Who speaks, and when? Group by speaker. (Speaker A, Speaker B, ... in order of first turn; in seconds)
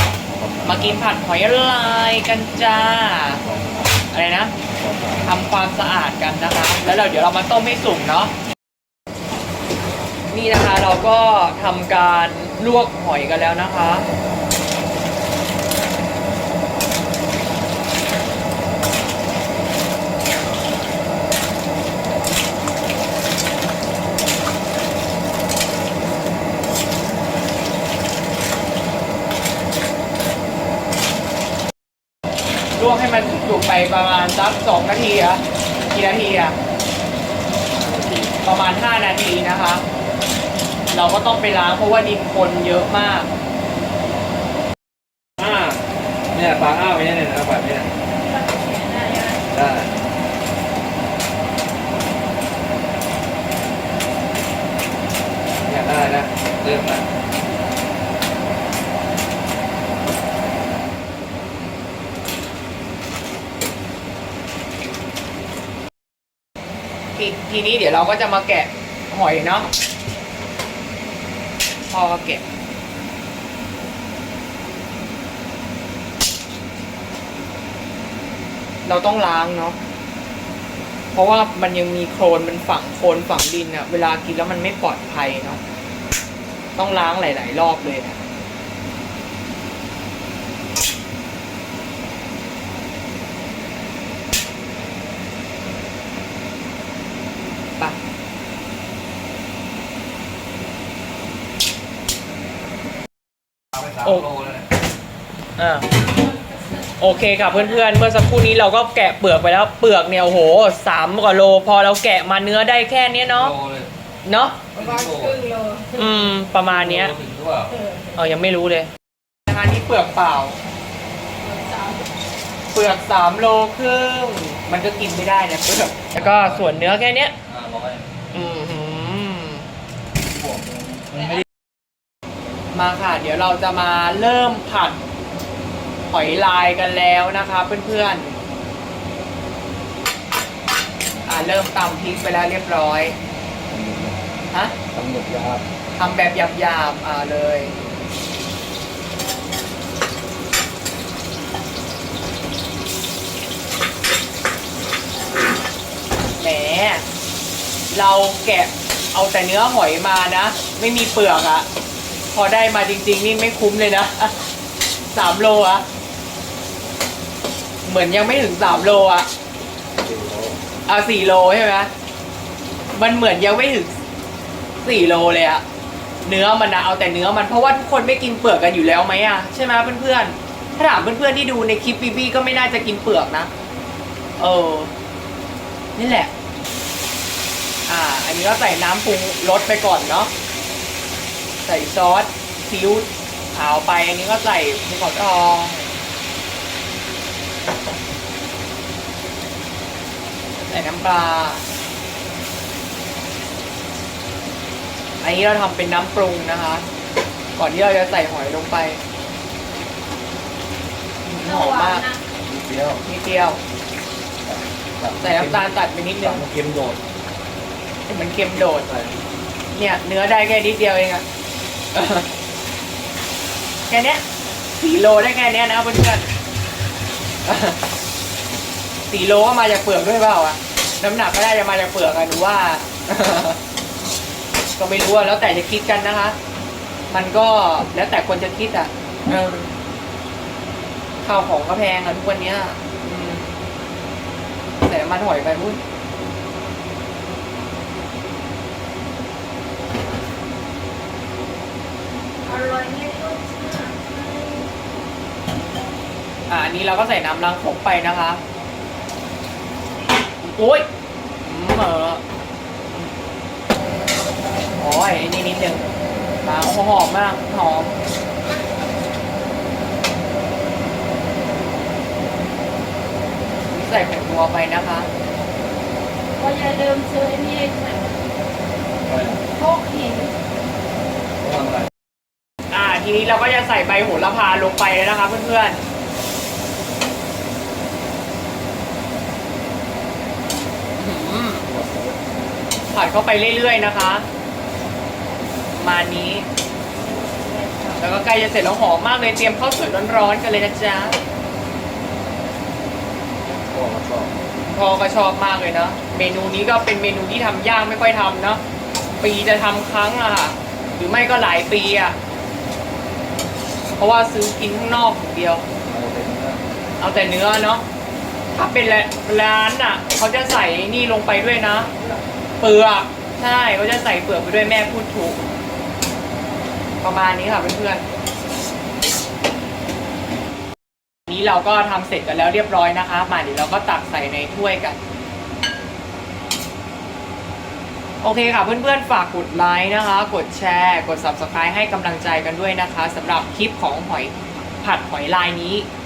Speaker A: 0.3-1.0, 3.4-3.9, 4.7-5.3, 37.9-38.2, 45.4-45.8, 46.3-47.9, 49.5-49.9, 55.6-57.0, 103.8-104.6, 113.3-113.9, 114.7-115.4, 116.7-117.8, 126.2-126.8, 127.5-128.0, 130.3-131.4, 143.7-144.2, 144.8-145.6, 168.7-169.0, 169.9-170.6, 212.4-213.0, 214.4-217.0, 218.7-219.1, 279.0-279.4, 281.4-281.9, 291.7-292.2, 303.7-304.3, 315.9-316.6, 322.0-322.2
Speaker B: 0.6-3.4, 4.1-4.5, 5.2-8.3, 10.3-14.1, 32.8-36.5, 38.4-39.8, 40.9-43.3, 67.1-69.7, 71.9-72.4, 78.8-79.8, 81.1-85.6, 86.8-88.2, 104.0-104.3, 105.6-105.9, 107.0-113.5, 114.2-114.6, 115.9-117.1, 118.1-118.9, 119.5-120.6, 122.7-127.3, 128.3-129.7, 132.7-135.0, 136.1-138.4, 141.2-143.2, 145.9-147.8, 156.4-157.0, 157.9-161.7, 162.3-164.3, 165.1-165.8, 167.8-169.3, 170.8-171.9, 172.9-173.9, 174.8-175.6, 176.2-183.5, 184.4-184.9, 185.9-186.3, 187.9-190.3, 191.6-195.9, 200.6-201.6, 205.2-206.9, 207.6-209.0, 211.2-212.1, 213.0-213.6, 215.2-216.4, 218.1-218.9, 219.7-221.2, 221.9-222.3, 223.9-224.2, 224.8-226.3, 227.4-227.8, 229.1-233.6, 234.8-236.4, 237.1-239.7, 241.2-243.6, 244.8-245.8, 256.5-258.4, 260.4-260.9, 261.4-262.2, 264.8-265.9, 266.4-267.9, 273.7-275.1, 282.7-285.8, 291.0-291.7, 292.9-294.3, 295.7-296.4, 298.0-301.2, 304.6-308.6, 309.2-312.2, 314.0-315.6, 317.0-317.8, 318.5-321.9, 322.6-325.4, 327.0-328.0, 331.3-335.0, 338.2-345.9
Speaker C: 48.2-49.4, 114.7-116.1, 121.5-122.0, 211.4-212.2, 252.4-254.7, 276.4-278.2, 279.5-280.3, 297.0-298.0